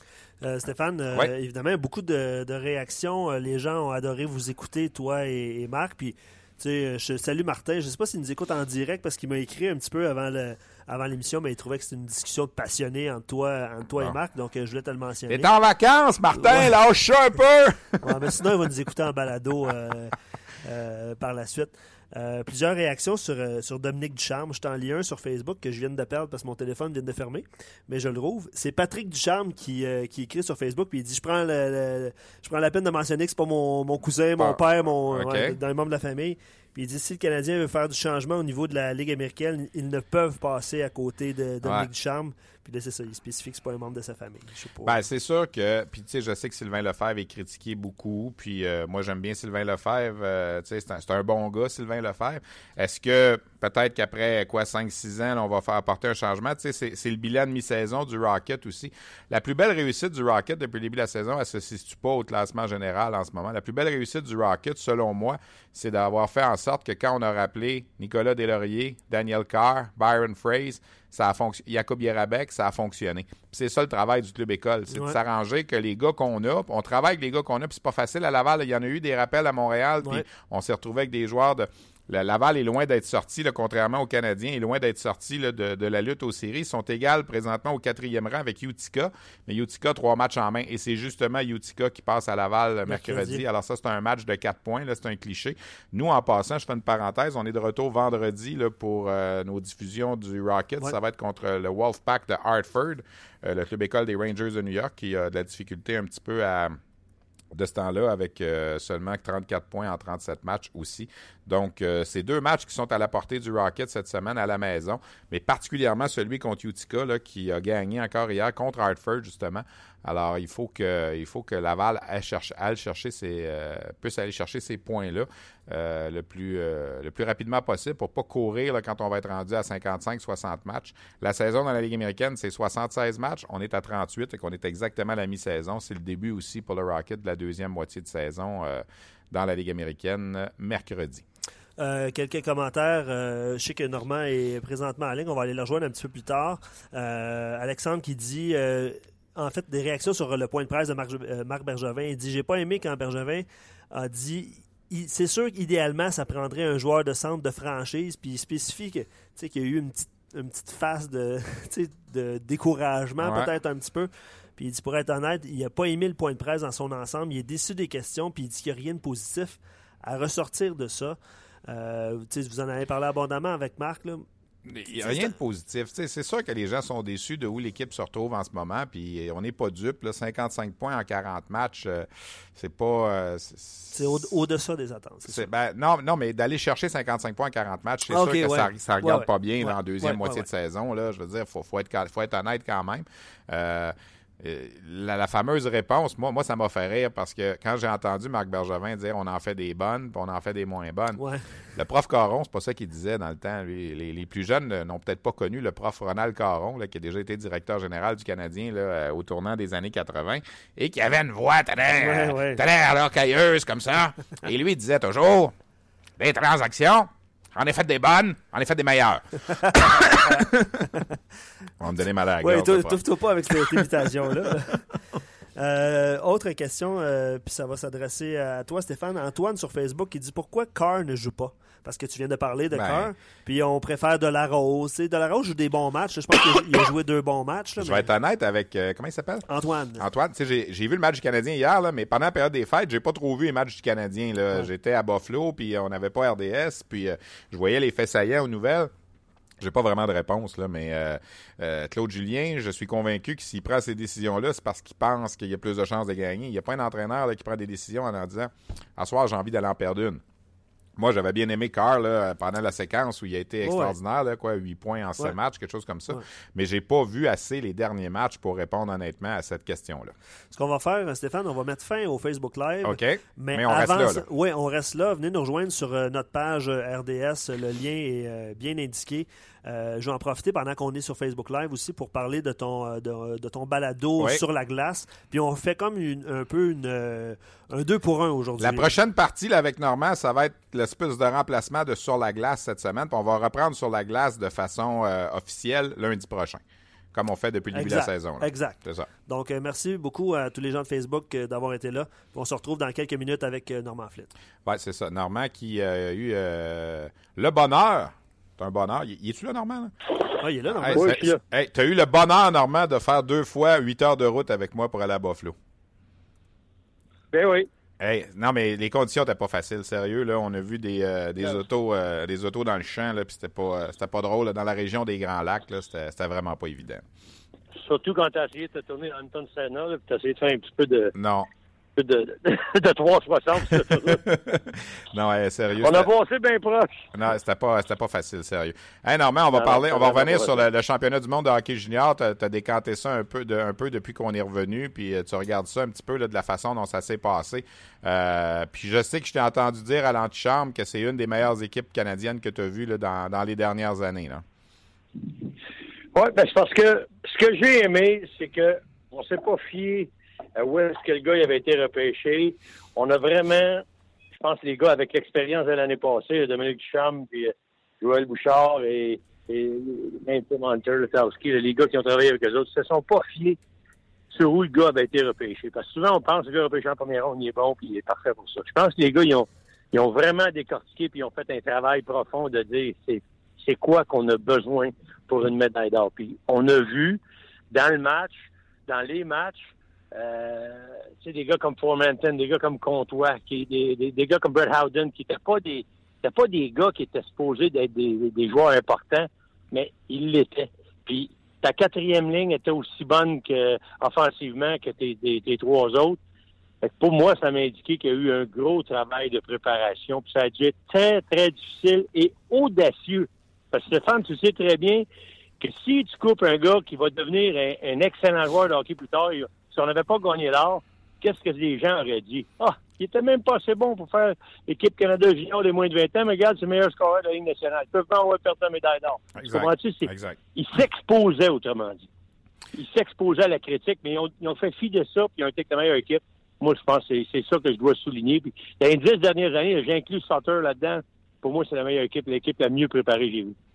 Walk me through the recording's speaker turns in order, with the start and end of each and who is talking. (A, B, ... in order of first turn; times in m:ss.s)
0:00.4-0:15.5 A
0:15.3-0:18.2 B
0:16.4-0:16.7 A
0:18.0-0:44.9 A
0:35.1-0:35.6 B
0:41.6-0:41.9 B
0:44.8-1:46.8 B
1:14.9-1:15.2 A
1:32.9-1:33.4 A
1:47.5-2:21.2 B
2:21.8-2:54.2 A
2:43.2-2:43.5 B
2:54.7-3:04.3 B
2:55.0-2:55.3 A
3:03.9-3:05.5 A
3:05.3-3:21.2 B
3:08.1-3:10.4 A
3:21.2-3:21.4 A
3:21.7-3:35.5 B
3:31.9-3:32.6 A
3:36.2-3:40.9 B
3:40.0-3:40.4 A
3:41.8-3:43.0 B
3:42.4-3:44.9 A
3:43.6-3:43.9 B
3:45.6-3:58.0 A
3:52.7-3:53.1 B
3:57.8-3:59.4 B
3:59.5-4:00.0 A
4:00.0-4:08.9 B
4:09.6-4:20.2 B
4:21.0-4:30.1 B
4:23.6-4:23.9 A
4:30.5-4:48.9 A
4:32.8-4:34.2 B
4:48.6-4:56.6 B
4:57.1-4:59.1 B
4:57.7-5:04.3 A
5:04.6-5:09.9 B
5:10.4-5:11.2 A
5:10.7-5:15.5 B
5:10.9-5:11.4 C
5:17.3-5:17.7 C
5:18.0-5:27.0 B
5:27.8-5:31.1 C
5:31.2-5:31.5 B
5:32.0-5:34.2 C
5:34.1-5:36.1 B
5:35.8-5:37.0 C
5:37.1-5:54.4 B
5:39.5-5:40.6 C
5:56.1-6:13.6 C
6:14.3-6:46.2 C
6:46.8-6:55.0 C
6:55.6-7:12.1 C
7:09.4-7:10.4 B
7:12.7-7:23.5 C